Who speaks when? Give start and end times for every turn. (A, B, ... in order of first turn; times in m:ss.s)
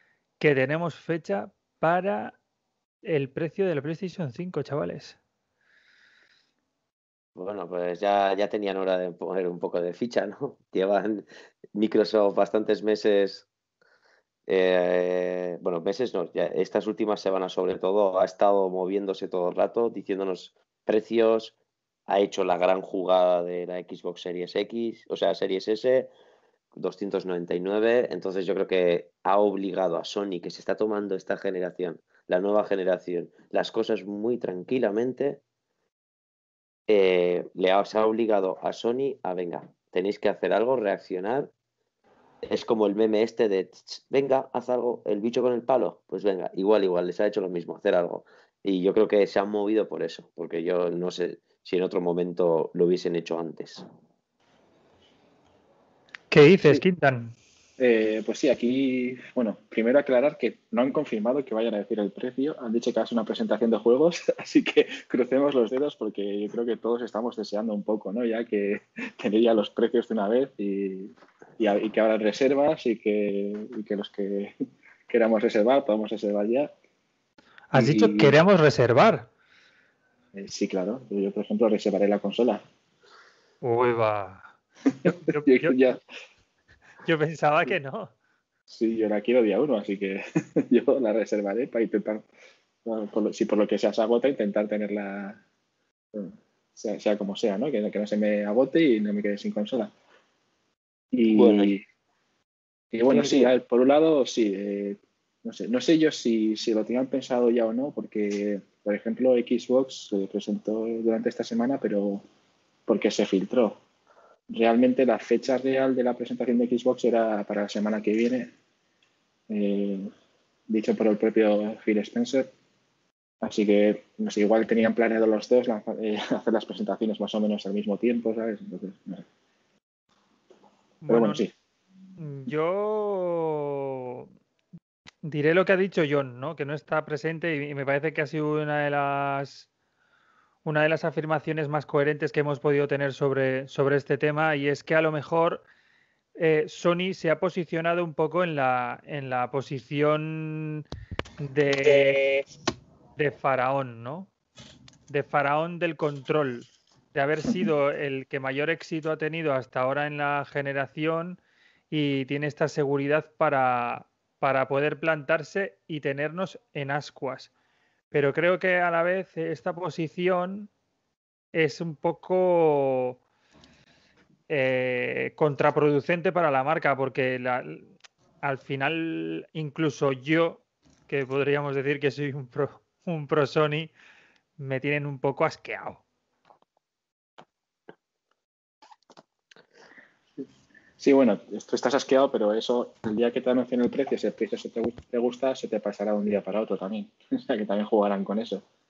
0:00.4-0:02.4 A
0:03.0-0:05.2 A
0:07.4-0:13.5 B
0:14.5-0:21.5 B
0:22.1-0:26.1 B
0:26.8-0:35.4 B
0:36.9-0:41.5 B
0:42.4-0:53.8 B
0:56.3-0:57.3 A
0:57.8-1:14.5 C
1:15.1-1:16.7 C
1:17.7-1:19.3 A
1:17.7-1:18.4 C
1:20.3-1:22.6 C
1:23.6-1:24.5 A
1:24.9-1:26.0 C
1:25.0-1:25.8 A
1:27.0-1:28.1 A
1:28.7-1:32.3 C
1:32.8-1:35.4 C
1:36.1-1:39.9 C
1:41.1-1:41.8 C
1:41.3-1:41.7 B
1:42.9-1:52.2 C
1:43.1-1:43.5 B
1:52.9-1:53.8 C
1:54.5-1:58.5 C
1:59.5-2:00.1 C
2:00.7-2:02.5 C
2:03.4-2:09.2 C
2:11.0-2:11.4 A
2:11.1-2:11.5 C
2:12.2-2:14.3 A
2:15.2-2:19.7 A
2:20.6-2:25.6 A
2:26.4-2:30.8 A
2:31.4-2:32.2 A
2:33.2-2:34.3 A
2:35.1-2:47.5 A
2:48.1-2:50.7 A
2:51.5-2:53.2 A
2:54.5-2:57.9 A
2:58.4-3:03.9 A
3:04.6-3:06.0 A
3:11.0-3:18.6 C